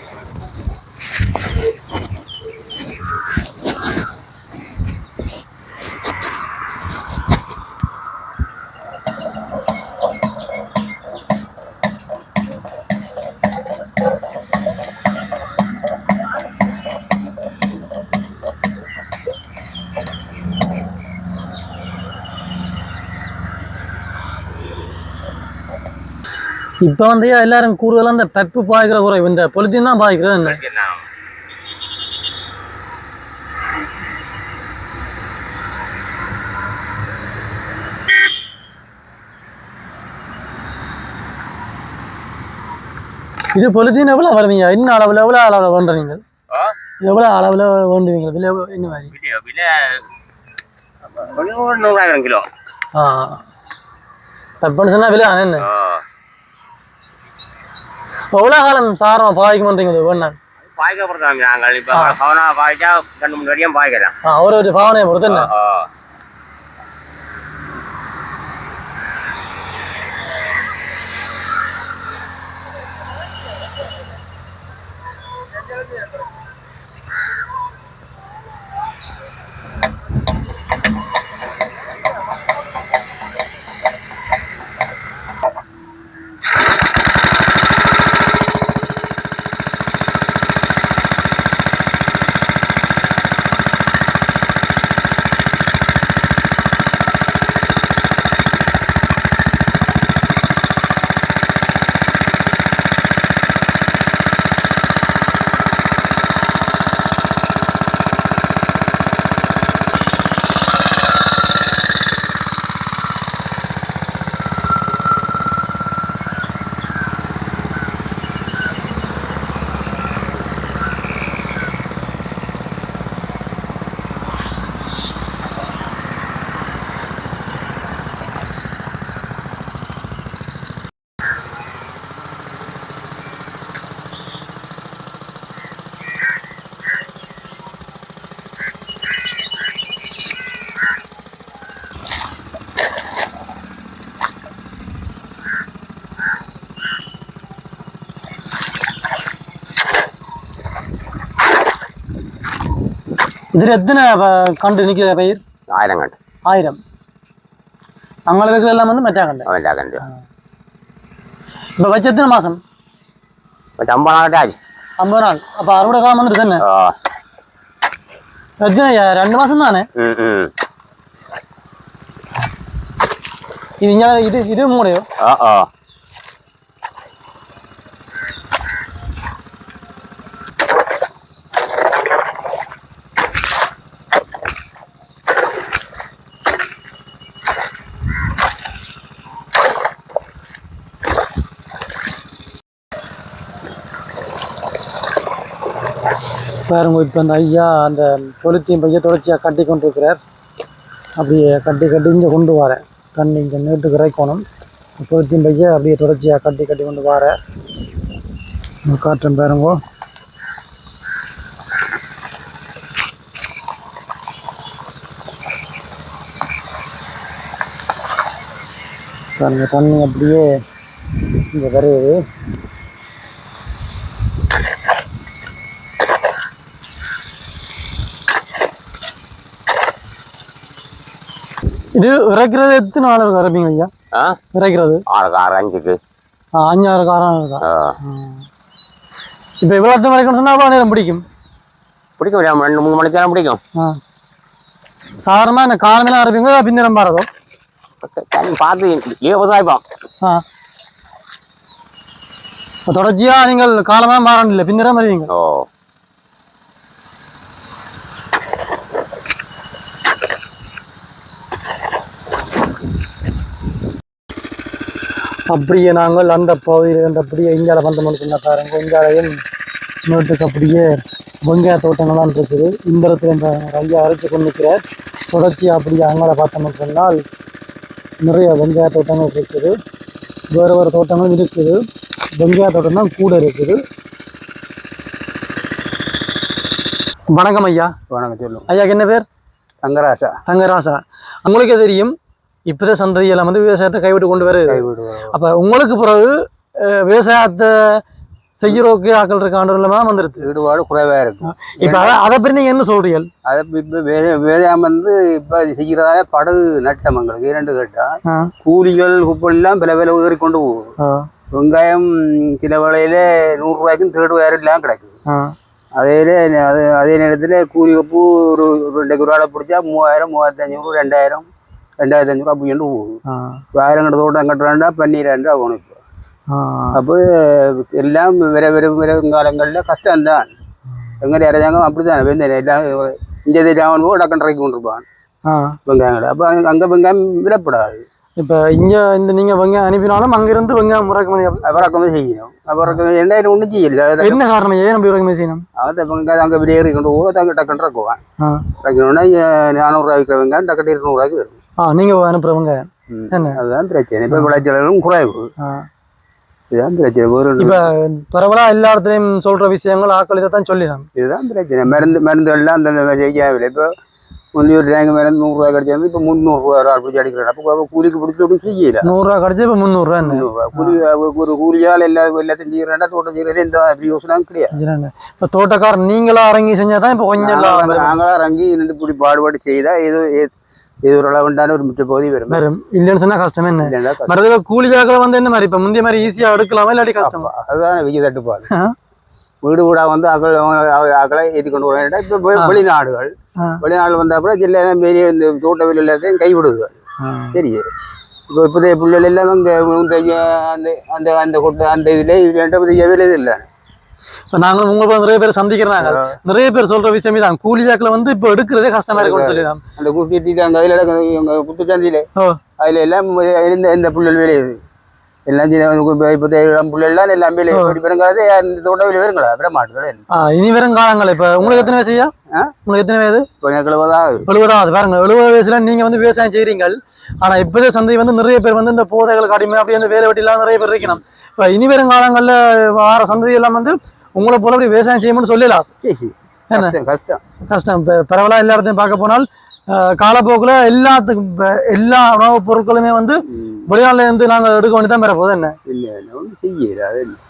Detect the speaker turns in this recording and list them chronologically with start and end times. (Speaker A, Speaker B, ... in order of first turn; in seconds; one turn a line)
Speaker A: 26.8-30.6
Speaker B: 30.4-31.1
Speaker A: 43.5-46.2
Speaker A: 47.0-49.1
Speaker B: 49.1-50.0
Speaker B: 51.2-52.5
Speaker A: 53.0-53.4
Speaker A: 54.6-55.7
Speaker B: 55.6-56.0
Speaker A: 58.3-60.4
Speaker B: 60.6-64.1
Speaker A: 64.2-65.5
Speaker B: 65.3-65.9
Speaker A: 153.5-155.4
Speaker B: 155.7-156.2
Speaker A: 156.5-156.8
Speaker A: 158.3-159.5
Speaker B: 159.5-160.0
Speaker A: 161.8-162.6
Speaker B: 163.8-164.6
Speaker A: 165.0-166.6
Speaker B: 166.6-166.9
Speaker A: 168.6-169.9
Speaker B: 170.0-170.5
Speaker A: 173.8-175.1
Speaker B: 175.2-175.7
Speaker A: 196.7-200.2
Speaker A: 201.2-204.4
Speaker A: 205.0-207.4
Speaker A: 208.9-209.8
Speaker A: 219.4-220.6
Speaker A: 221.5-222.2
Speaker A: 232.0-233.9
Speaker B: 234.1-234.4
Speaker A: 234.5-235.0
Speaker B: 235.1-236.0
Speaker A: 236.6-238.5
Speaker B: 237.6-238.0
Speaker A: 239.6-241.2
Speaker B: 242.2-243.6
Speaker A: 245.2-247.3
Speaker B: 248.0-249.8
Speaker A: 252.9-255.3
Speaker B: 255.3-255.7
Speaker A: 265.5-269.4
Speaker A: 270.1-277.2
Speaker A: 278.2-279.8
Speaker A: 280.5-281.8
Speaker A: 282.4-283.8
Speaker A: 287.3-287.9
Speaker C: 288.1-288.7
Speaker A: 288.7-289.2
Speaker C: 289.8-290.4
Speaker A: 290.5-292.1
Speaker A: 292.7-298.0
Speaker C: 294.7-295.3
Speaker A: 298.6-300.5
Speaker C: 300.4-302.2
Speaker A: 301.5-303.3
Speaker C: 303.4-310.9
Speaker A: 308.3-308.5
Speaker A: 311.0-311.3
Speaker C: 311.5-315.2
Speaker A: 315.3-315.6
Speaker C: 316.0-321.5
Speaker C: 322.0-323.2
Speaker A: 323.3-323.6
Speaker C: 323.7-326.0
Speaker A: 326.5-327.0
Speaker C: 326.9-330.5
Speaker C: 331.2-335.1
Speaker A: 335.5-335.8
Speaker C: 335.9-338.0
Speaker A: 338.4-341.8
Speaker C: 341.6-344.4
Speaker A: 344.2-345.6
Speaker C: 345.8-348.2
Speaker A: 348.4-348.7
Speaker C: 348.8-351.6
Speaker A: 351.8-353.6
Speaker C: 353.1-355.5
Speaker A: 355.6-355.9
Speaker C: 356.7-357.9
Speaker A: 357.6-361.1
Speaker C: 361.2-363.9
Speaker C: 364.6-369.1
Speaker A: 369.0-371.0
Speaker C: 370.2-374.7
Speaker A: 374.7-378.2
Speaker C: 377.4-380.5
Speaker C: 381.0-382.6
Speaker A: 382.5-387.5
Speaker C: 383.8-384.3
Speaker C: 387.2-388.7
Speaker A: 388.7-388.9
Speaker C: 389.6-397.0
Speaker A: 397.2-397.6
Speaker C: 397.5-397.8
Speaker C: 398.5-403.6
Speaker A: 404.5-409.8
Speaker C: 406.0-406.4
Speaker C: 409.1-412.3
Speaker C: 412.8-414.8
Speaker C: 415.5-420.2
Speaker A: 417.7-418.0
Speaker A: 420.3-422.3
Speaker C: 421.6-421.9
Speaker A: 422.9-423.5
Speaker C: 423.6-424.5
Speaker A: 424.5-435.9
Speaker C: 436.0-437.4
Speaker A: 437.7-445.8
Speaker C: 443.5-443.8
Speaker C: 445.9-447.4